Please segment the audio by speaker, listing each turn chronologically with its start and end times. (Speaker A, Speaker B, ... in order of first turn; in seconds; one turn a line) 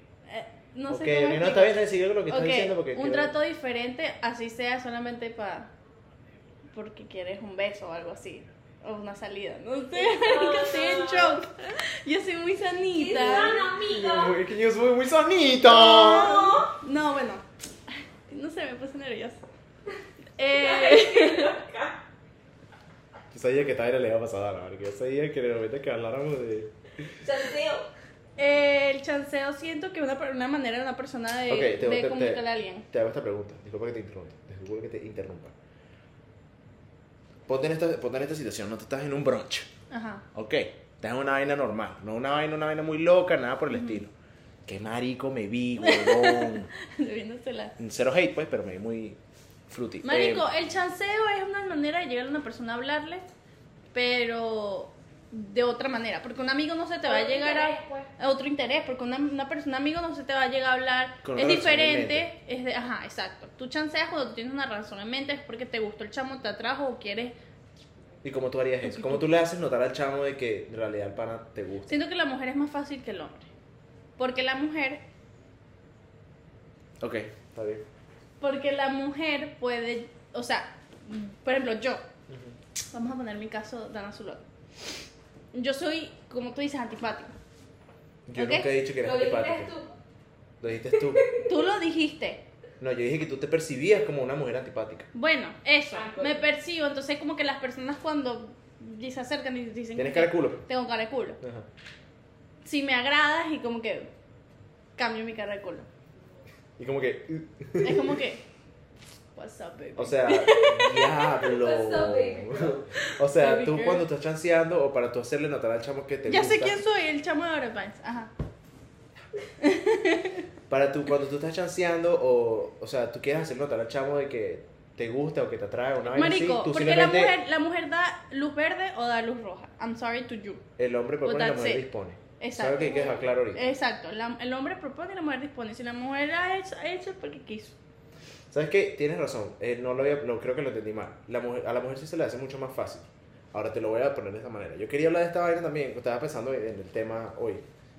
Speaker A: 0.3-5.7
Speaker B: 0.9-3.4
Speaker A: 6.7-13.7
Speaker C: 10.0-11.4
Speaker C: 12.9-14.4
Speaker B: 13.8-16.4
Speaker A: 15.7-17.4
Speaker C: 16.1-16.7
Speaker A: 18.3-19.4
Speaker A: 20.4-21.6
Speaker C: 20.6-22.0
Speaker B: 23.3-27.1
Speaker C: 27.1-27.9
Speaker A: 28.4-32.9
Speaker B: 31.5-35.5
Speaker B: 37.5-39.7
Speaker A: 39.9-40.2
Speaker B: 40.3-44.1
Speaker A: 43.7-44.0
Speaker B: 44.7-46.7
Speaker A: 45.8-47.8
Speaker B: 47.8-50.5
Speaker A: 50.0-53.3
Speaker A: 53.9-67.3
Speaker C: 57.0-58.1
Speaker B: 61.2-62.3
Speaker B: 68.2-71.9
Speaker A: 68.8-69.3
Speaker A: 71.9-73.5
Speaker A: 74.2-75.0
Speaker B: 77.0-77.8
Speaker A: 78.4-82.0
Speaker B: 82.3-82.6
Speaker A: 82.9-84.5
Speaker A: 85.5-87.3
Speaker B: 88.3-89.7
Speaker A: 88.4-88.7
Speaker C: 89.0-89.9
Speaker B: 90.6-91.2
Speaker C: 91.1-91.5
Speaker A: 91.5-92.4
Speaker B: 92.8-95.1
Speaker A: 95.1-101.4
Speaker C: 95.9-96.4
Speaker B: 100.0-100.7
Speaker B: 101.4-101.7
Speaker A: 102.7-104.1
Speaker A: 105.0-105.9
Speaker B: 106.8-108.2
Speaker A: 107.8-108.4
Speaker A: 109.3-111.1
Speaker B: 110.0-116.8
Speaker C: 110.6-112.9
Speaker A: 113.0-114.1
Speaker A: 116.3-118.3
Speaker A: 119.6-120.4
Speaker B: 120.7-127.3
Speaker A: 126.1-130.6
Speaker B: 130.8-133.7
Speaker A: 131.2-131.8
Speaker A: 132.4-137.8
Speaker B: 138.5-147.7